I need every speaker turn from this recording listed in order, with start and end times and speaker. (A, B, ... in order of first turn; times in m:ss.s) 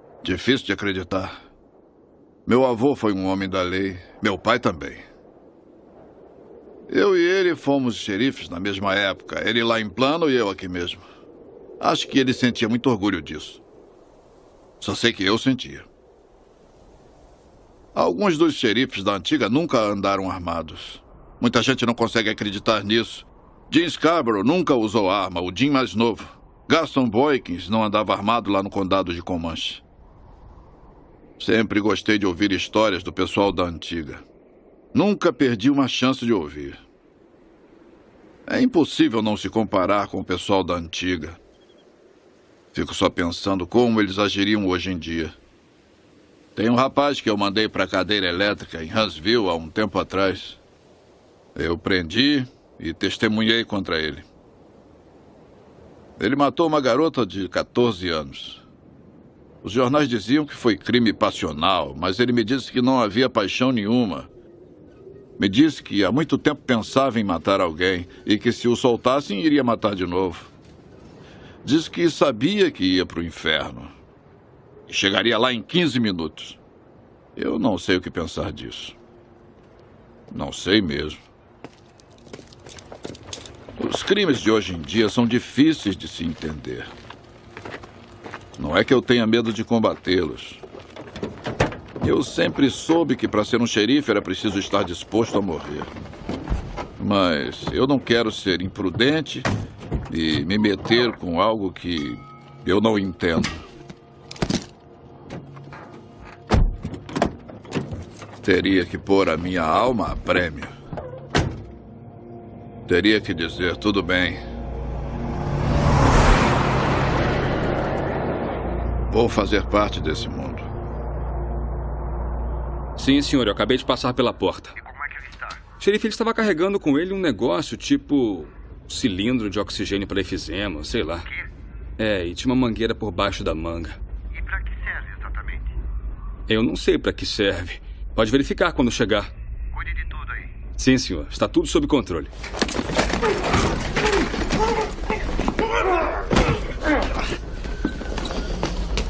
0:00.2-0:01.4 A
0:02.4-0:05.0 A
0:06.9-0:11.0 A
0:11.8-0:13.6 A
0:14.8-0:15.9 A
0:17.9-0:29.8 A
0:31.4-0:34.2 A
0:34.9-0:36.8 A
0:38.5-0:41.4 A
0:42.7-0:45.4 A
0:46.5-0:50.6 A
0:51.5-0:54.2 A
0:56.2-0:58.6 A
0:59.6-1:04.3 A
1:05.4-1:10.5 A
1:11.6-1:13.9 A
1:14.9-1:16.6 A
1:17.4-1:19.0 A
1:20.3-1:21.2 A
1:23.8-1:26.9 A
1:28.6-1:30.6 A
1:32.0-1:35.9 A
1:37.0-1:39.5 A
1:40.1-1:43.6 A
1:48.4-1:50.7 A
1:52.9-1:54.4 A
1:59.1-2:00.7 A
2:03.0-2:04.8 B
2:04.9-2:05.5 C
2:05.7-2:11.3 B
2:12.0-2:14.0 B
2:14.4-2:15.6 C
2:16.5-2:19.3 B
2:19.8-2:20.5 C
2:20.7-2:22.3 B